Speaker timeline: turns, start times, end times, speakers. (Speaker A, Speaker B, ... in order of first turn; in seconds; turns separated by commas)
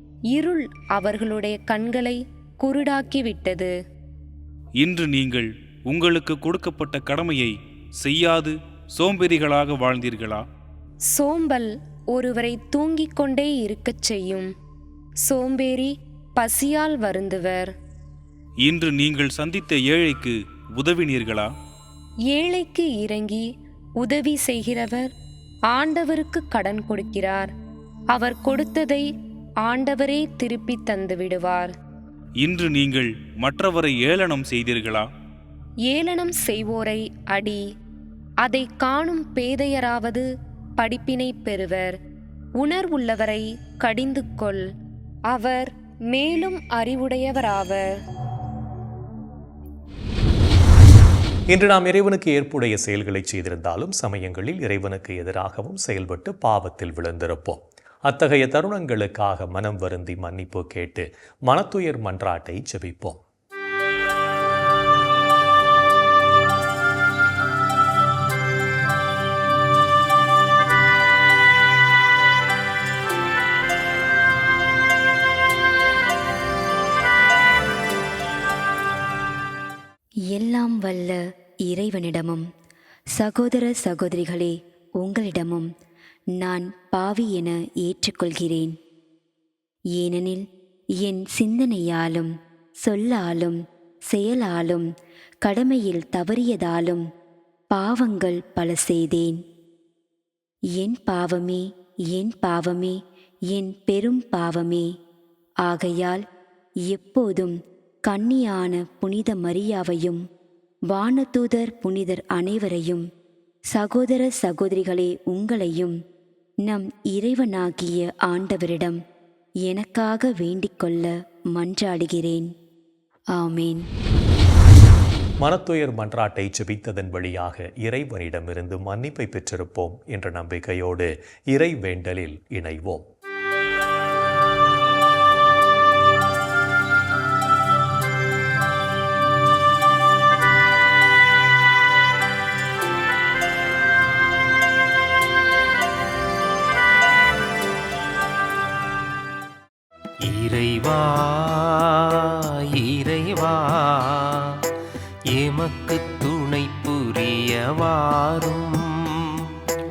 Speaker A: 0.3-3.7, Speaker B: 4.8-10.4, Speaker A: 11.1-14.5, Speaker A: 15.2-17.7, Speaker B: 18.6-21.5, Speaker A: 22.3-23.5, Speaker A: 24.0-25.1, Speaker A: 25.7-27.5, Speaker A: 28.1-29.1, Speaker A: 29.6-31.7, Speaker B: 32.4-35.1, Speaker A: 35.9-37.6, Speaker A: 38.4-40.2, Speaker A: 40.8-41.9, Speaker A: 42.6-44.6, Speaker A: 45.3-48.0, Speaker C: 51.5-63.2, Speaker D: 80.3-82.5, Speaker D: 83.1-85.7, Speaker D: 86.4-88.8, Speaker D: 89.9-90.5, Speaker D: 91.0-93.6, Speaker D: 94.1-94.8, Speaker D: 95.4-97.0, Speaker D: 97.7-99.4, Speaker D: 100.8-103.0, Speaker D: 103.5-104.9, Speaker D: 105.6-106.2, Speaker D: 106.8-110.2, Speaker D: 110.9-113.0, Speaker D: 113.7-115.9, Speaker D: 116.6-119.0, Speaker D: 119.6-122.5, Speaker D: 123.3-123.9, Speaker C: 125.4-133.0, Speaker E: 150.3-154.6, Speaker E: 155.3-159.4